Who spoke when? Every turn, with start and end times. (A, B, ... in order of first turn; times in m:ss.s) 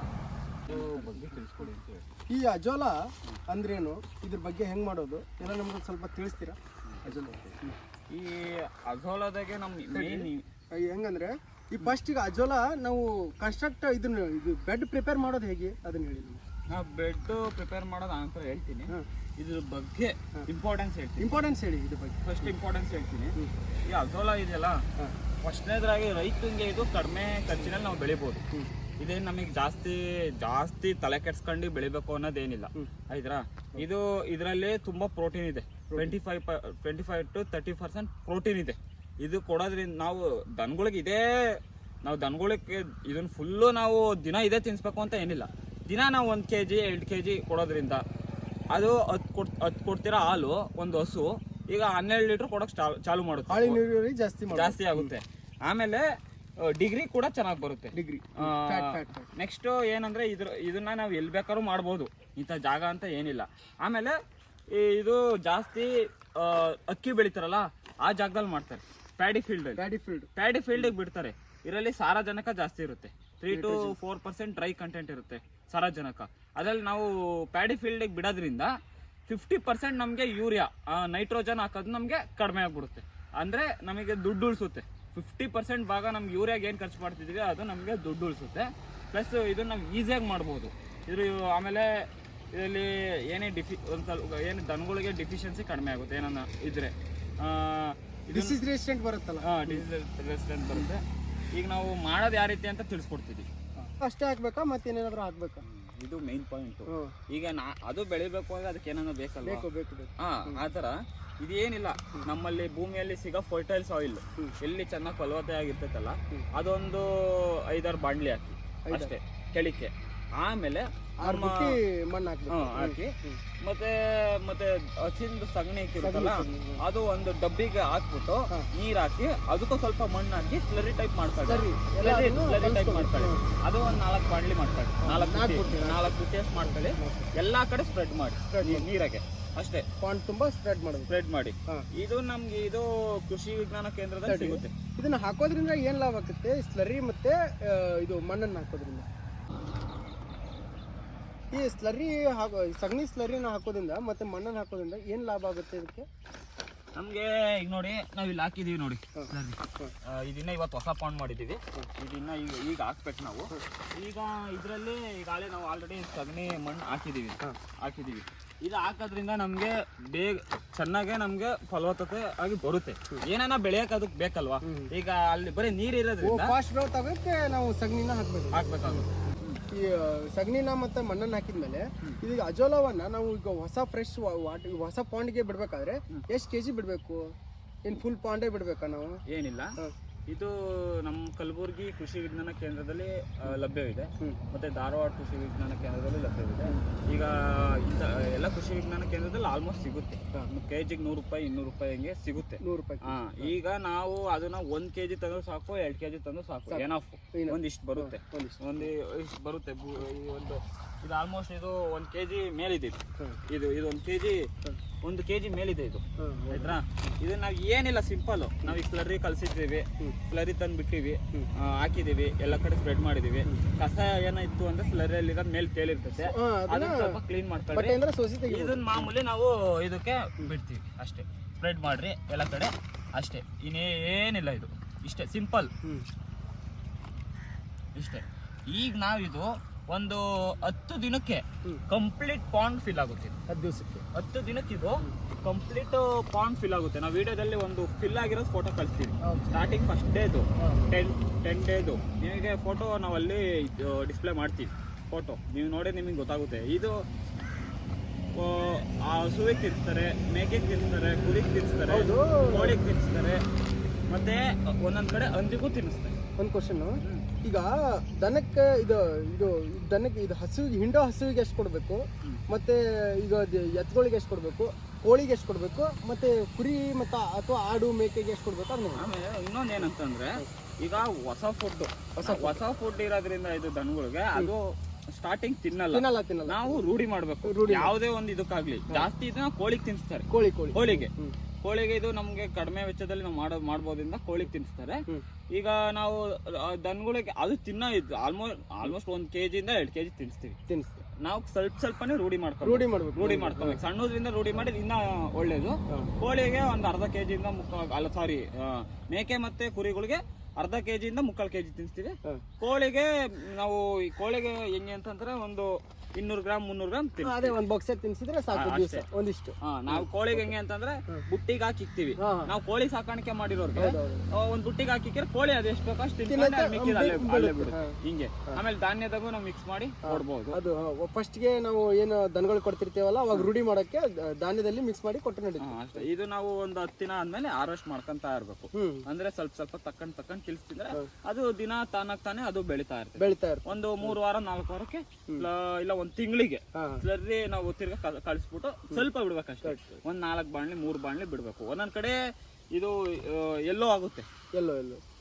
0:00.6-0:02.0 A
0:00.7-0:01.3 B
0:02.3-0:07.7 B
0:06.9-0:10.4 A
0:09.9-0:16.4 B
0:16.7-0:21.4 A
0:21.2-0:22.5 B
0:22.2-0:24.8 A
0:25.4-0:28.4 A
0:29.0-0:48.0 A
0:35.9-0:36.2 B
0:48.7-0:53.8 A
0:53.5-0:55.1 B
0:54.5-0:56.0 A
0:56.6-1:04.2 A
0:57.9-0:59.3 B
1:04.7-1:09.8 A
1:09.8-1:10.8 B
1:10.3-1:18.7 A
1:13.5-1:14.0 B
1:19.3-1:31.9 A
1:32.5-1:38.6 A
1:38.3-1:39.9 B
1:39.4-1:41.0 A
1:41.5-1:43.5 A
1:43.8-1:45.6 B
1:45.6-1:49.6 A
1:46.9-1:47.1 B
1:49.4-1:50.6 B
1:50.2-2:01.7 A
1:58.9-1:59.1 B
2:01.2-2:03.4 B
2:02.5-2:19.8 A
2:06.0-2:06.8 B
2:11.4-2:13.4 B
2:15.0-2:17.3 B
2:18.5-2:18.9 B
2:20.0-2:21.1 B
2:21.1-2:24.7 A
2:24.2-2:29.1 B
2:31.5-2:36.0 B
2:37.0-2:56.5 A
2:39.2-2:39.9 B
2:54.6-2:54.9 B
2:56.2-2:59.0 B
2:58.5-2:59.6 A
2:59.7-3:07.2 B
3:07.8-3:09.2 B
3:09.3-3:09.8 A
3:10.3-3:34.5 A
3:22.6-3:23.5 B
3:26.7-3:28.9 B
3:35.0-3:55.7 A
3:36.2-3:37.1 B
3:46.2-3:47.2 B
3:47.7-3:49.1 B
3:57.9-4:03.4 A
4:03.5-4:04.0 B
4:04.1-4:17.0 A
4:09.2-4:09.6 B
4:10.6-4:10.9 B
4:18.3-4:23.4 A
4:21.9-4:22.8 B
4:24.1-4:26.2 A
4:26.4-4:39.0 B
4:39.0-4:51.1 A
4:42.2-4:42.6 B
4:45.9-4:46.9 B
4:47.4-4:47.9 B
4:50.3-4:51.4 B
4:51.6-5:00.6 A
5:00.7-5:01.0 B
5:01.2-5:17.6 A
5:02.6-5:03.8 B
5:17.2-5:20.5 B
5:18.5-5:19.0 A
5:19.6-5:30.6 A
5:22.2-5:22.5 B
5:23.8-5:24.3 B
5:26.3-5:28.0 B
5:30.0-5:36.0 B
5:35.6-5:52.2 A
5:38.7-5:39.0 B
5:43.2-5:44.2 B
5:46.7-5:47.0 B
5:52.7-5:54.2 A
5:54.5-5:55.0 B